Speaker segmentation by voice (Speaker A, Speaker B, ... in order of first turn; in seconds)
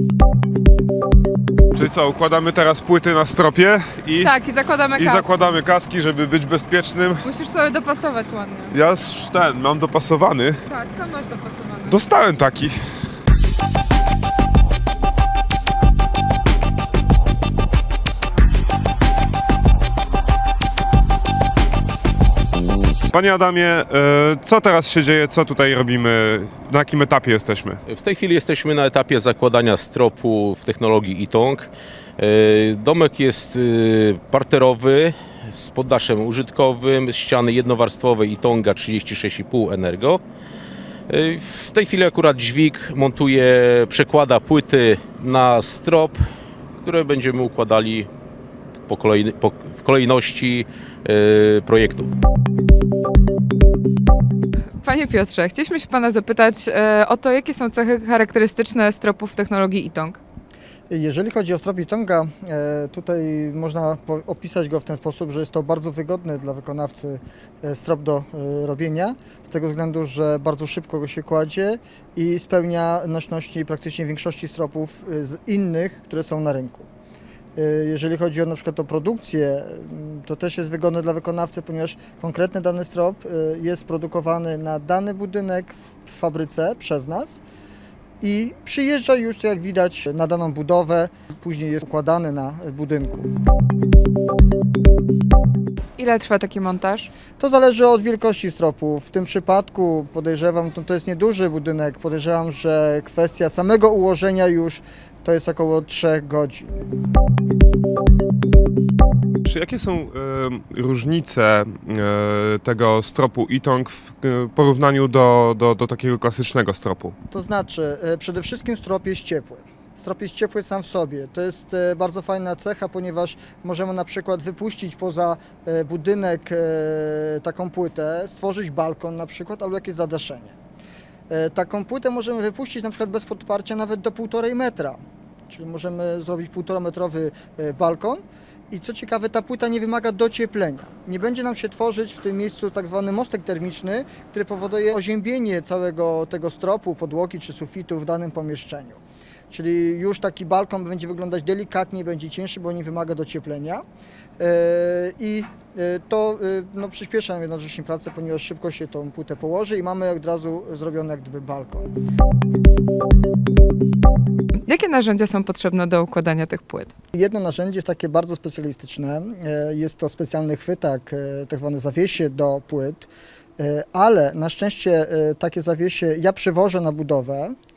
Speaker A: 1.7-4.3, 5.0-7.2, 8.7-10.6, 11.9-12.8, 23.1-27.8, 109.5-117.1
Speaker B: 4.2-5.4, 7.2-8.7, 10.7-12.0, 54.8-60.2, 96.0-97.1, 164.7-166.9
Speaker C: 27.9-40.2, 41.1-46.2, 46.8-48.1, 48.9-52.1
Speaker D: 60.9-76.9, 77.5-87.4, 88.2-93.3, 97.4-106.8, 117.3-130.5, 131.3-153.8, 154.4-161.9, 167.1-177.5